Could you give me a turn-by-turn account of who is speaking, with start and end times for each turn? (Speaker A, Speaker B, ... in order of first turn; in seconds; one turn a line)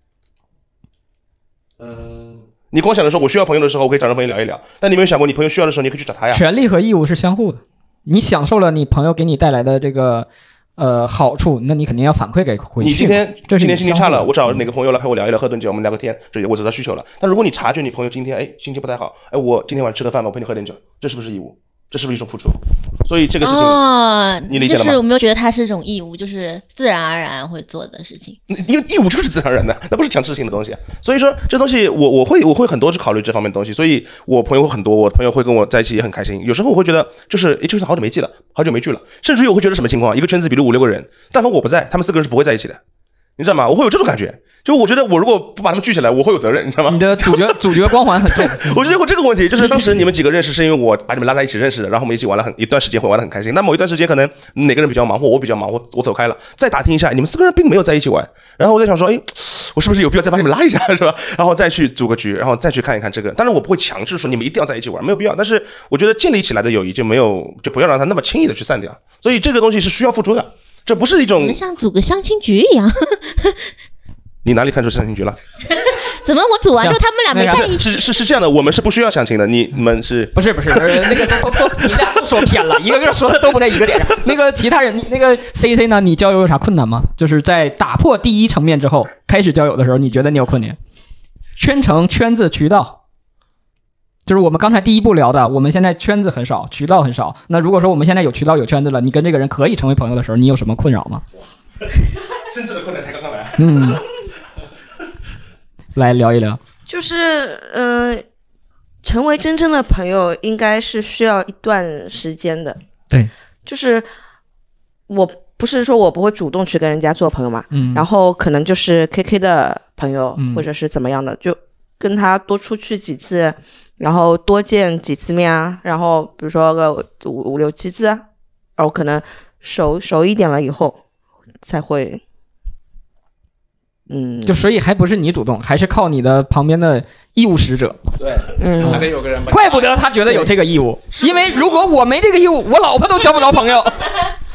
Speaker A: 1.8-2.5
Speaker B: 2.7-6.4
Speaker C: 6.3-14.3
Speaker B: 12.8-23.8
Speaker D: 23.4-28.4
Speaker B: 24.5-25.0
Speaker B: 28.5-42.8
Speaker B: 43.4-71.6
Speaker C: 46.9-48.8
Speaker D: 71.4-73.7
Speaker B: 74.4-75.4
Speaker D: 75.7-78.1
Speaker C: 76.8-77.7
Speaker B: 77.5-82.1
Speaker C: 80.3-90.8
Speaker C: 91.5-93.0
Speaker C: 94.3-101.2
Speaker B: 102.5-104.0
Speaker C: 103.6-104.0
Speaker C: 105.9-106.6
Speaker E: 106.9-108.2
Speaker E: 109.0-112.8
Speaker E: 113.7-114.1
Speaker E: 115.1-128.2
Speaker C: 117.7-118.0
Speaker C: 120.3-120.7
Speaker E: 128.8-131.0
Speaker E: 131.6-132.2
Speaker E: 134.1-134.6
Speaker C: 134.4-138.0
Speaker A: 138.2-140.0
Speaker E: 138.6-139.1
Speaker C: 138.9-144.1
Speaker B: 141.3-141.7